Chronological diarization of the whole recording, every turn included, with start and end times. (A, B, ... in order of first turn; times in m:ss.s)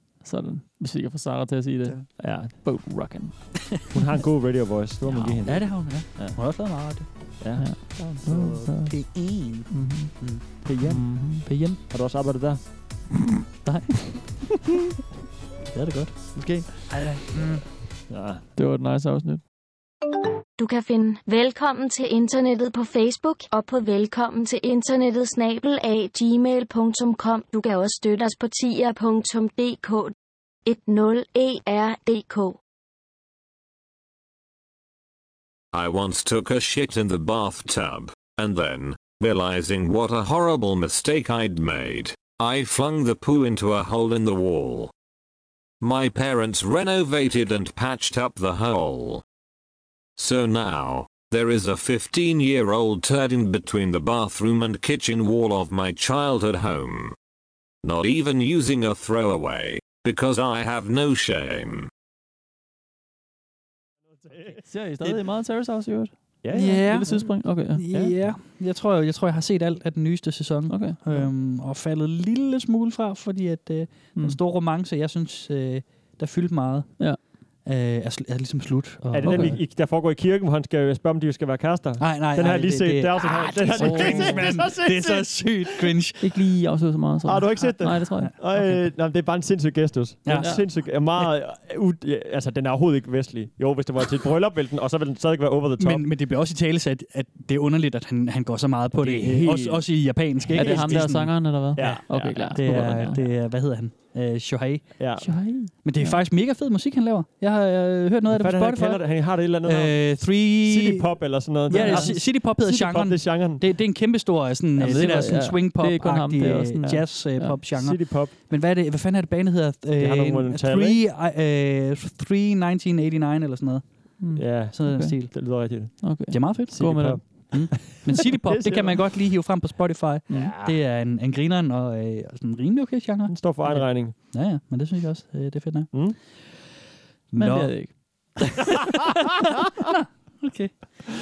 0:00.2-0:03.9 A
0:02.2-0:02.9 B
0:03.9-0:06.4 B
0:05.0-0:05.8 A
0:05.4-0:11.8 C
0:07.4-0:08.0 B
0:07.6-0:11.5 A
0:10.6-0:12.7 B
0:13.6-0:14.4 C
0:15.7-0:17.6 C
0:18.1-0:18.4 B
0:18.5-0:19.4 A
0:20.6-0:30.1 D
0:30.6-0:32.6 D
0:35.7-0:44.9 E
0:45.8-0:49.2 E
0:50.2-0:57.2 E
0:57.8-1:01.9 E
1:04.2-1:04.6 B
1:04.6-1:08.2 A
1:06.4-1:07.3 B
1:06.5-1:19.6 C
1:10.7-1:11.3 A
1:19.1-1:25.9 B
1:19.2-1:19.6 A
1:22.0-1:26.2 C
1:23.7-1:24.7 A
1:26.2-1:28.6 A
1:27.2-1:36.1 B
1:28.2-1:28.9 C
1:30.2-1:31.0 C
1:30.3-1:30.6 A
1:35.8-2:05.7 C
1:39.0-1:39.9 B
1:40.5-1:41.2 B
1:40.5-1:43.2 A
1:41.7-1:43.2 B
1:45.0-1:45.4 B
1:45.2-1:46.2 A
1:48.3-1:53.6 B
1:51.7-1:52.2 A
1:54.8-1:57.6 A
1:57.7-1:58.3 B
2:00.0-2:01.0 B
2:04.2-2:07.5 A
2:04.3-2:09.1 B
2:06.3-2:16.4 C
2:10.3-2:10.5 A
2:10.3-2:10.8 B
2:13.3-2:14.1 B
2:15.9-2:16.2 B
2:17.3-2:18.4 C
2:17.3-2:18.4 A
2:19.9-2:21.0 C